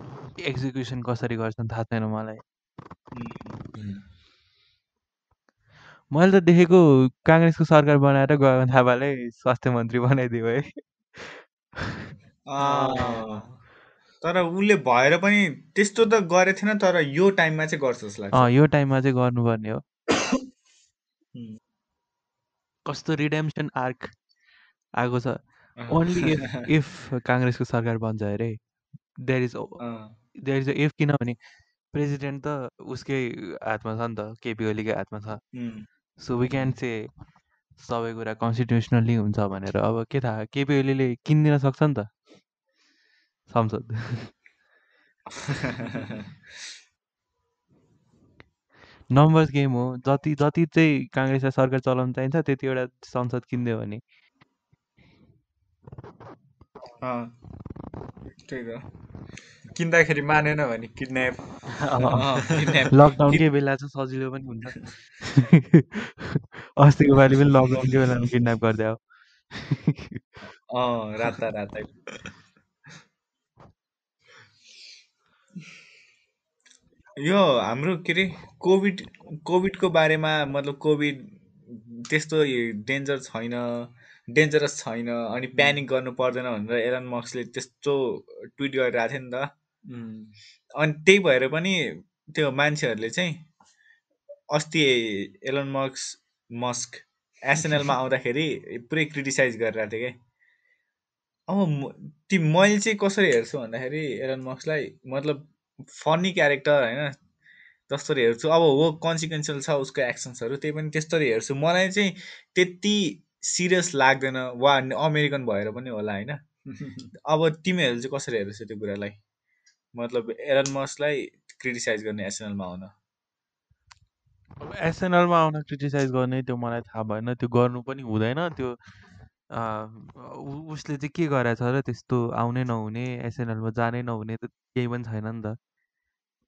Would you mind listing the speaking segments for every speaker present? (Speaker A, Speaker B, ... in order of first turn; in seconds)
Speaker A: 0.4-2.4, 6.1-12.1, 18.3-19.8, 22.9-24.1, 25.0-28.6, 29.2-29.8, 30.4-31.4, 31.9-35.4, 36.2-37.1, 37.8-42.1, 43.5-44.3, 49.1-54.0, 61.7-69.0, 69.5-70.2, 124.6-128.8, 129.5-135.6
Speaker B: 3.1-3.6, 12.5-13.5, 14.2-18.5, 25.8-26.7, 29.8-30.1, 35.5-35.9, 45.3-46.3, 57.0-57.3, 58.4-58.8, 62.1-63.4, 70.7-71.9, 77.2-89.5, 90.8-93.4, 94.5-100.2, 101.5-107.2, 107.9-116.4, 117.2-119.2, 120.0-122.9
Speaker C: 3.8-4.0, 12.6-13.4, 59.7-61.4, 62.4-62.9, 85.5-85.8, 89.9-90.3, 116.7-117.1